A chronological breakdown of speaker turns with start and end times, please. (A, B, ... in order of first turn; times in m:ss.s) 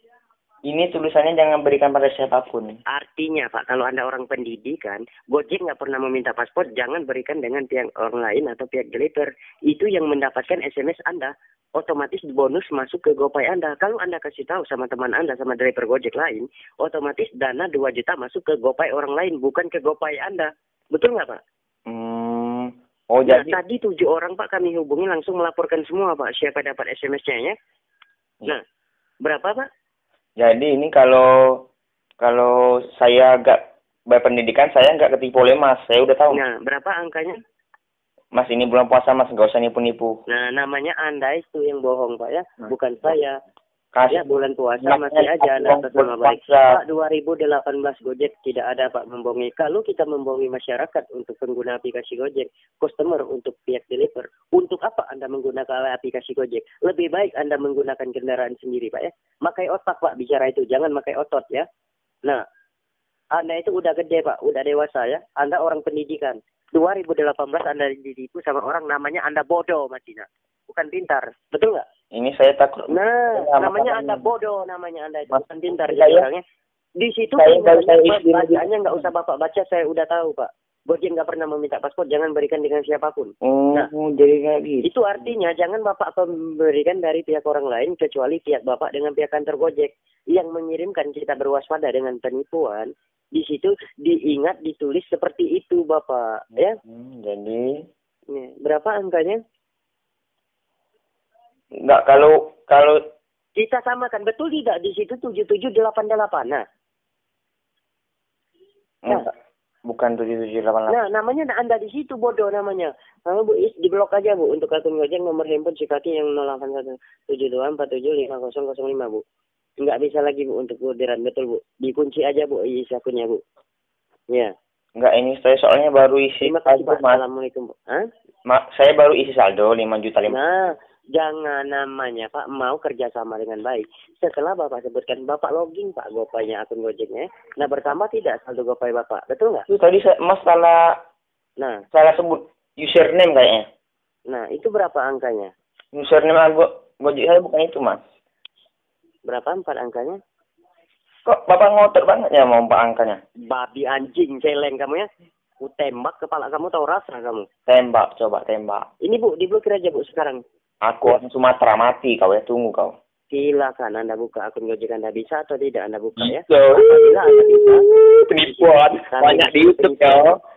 0:00.7-0:02.8 A
0:02.9-0:21.4 B
0:21.9-0:23.6 A
0:23.2-0:27.5 B
0:29.2-0:29.6 B
0:30.4-0:31.3 A
0:32.2-0:36.4 A
0:36.3-0:37.4 B
0:38.3-0:40.2 A
0:40.3-0:43.4 B
0:43.9-0:46.8 A
0:44.1-1:01.6 B
1:03.3-1:11.8 B
1:12.1-1:14.3 A
1:12.9-1:16.4 B
1:15.3-1:16.3 A
1:17.0-1:23.9 B
1:17.4-1:19.0 A
1:23.4-1:25.3 A
1:24.8-1:36.8 B
1:36.8-1:37.8 A
1:38.3-1:39.4 B
1:41.8-1:43.0 A
1:43.6-1:46.6 B
1:49.0-1:49.3 A
1:49.8-1:51.0 A
1:50.9-1:59.2 B
1:59.8-2:03.4 B
2:05.0-2:07.2 A
2:06.4-2:08.0 B
2:08.5-2:10.4 A
2:10.3-2:19.6 B
2:19.7-2:20.9 A
2:21.9-2:23.6 A
2:24.3-2:25.5 B
2:25.9-2:28.0 A
2:29.2-2:30.2 B
2:31.2-2:33.2 A
2:33.5-2:35.1 B
2:35.6-2:37.5 B
2:37.7-2:38.9 A
2:39.0-2:40.4 B
2:40.8-2:42.9 A
2:43.3-2:47.8 B
2:46.2-2:50.4 A
2:48.5-2:50.3 B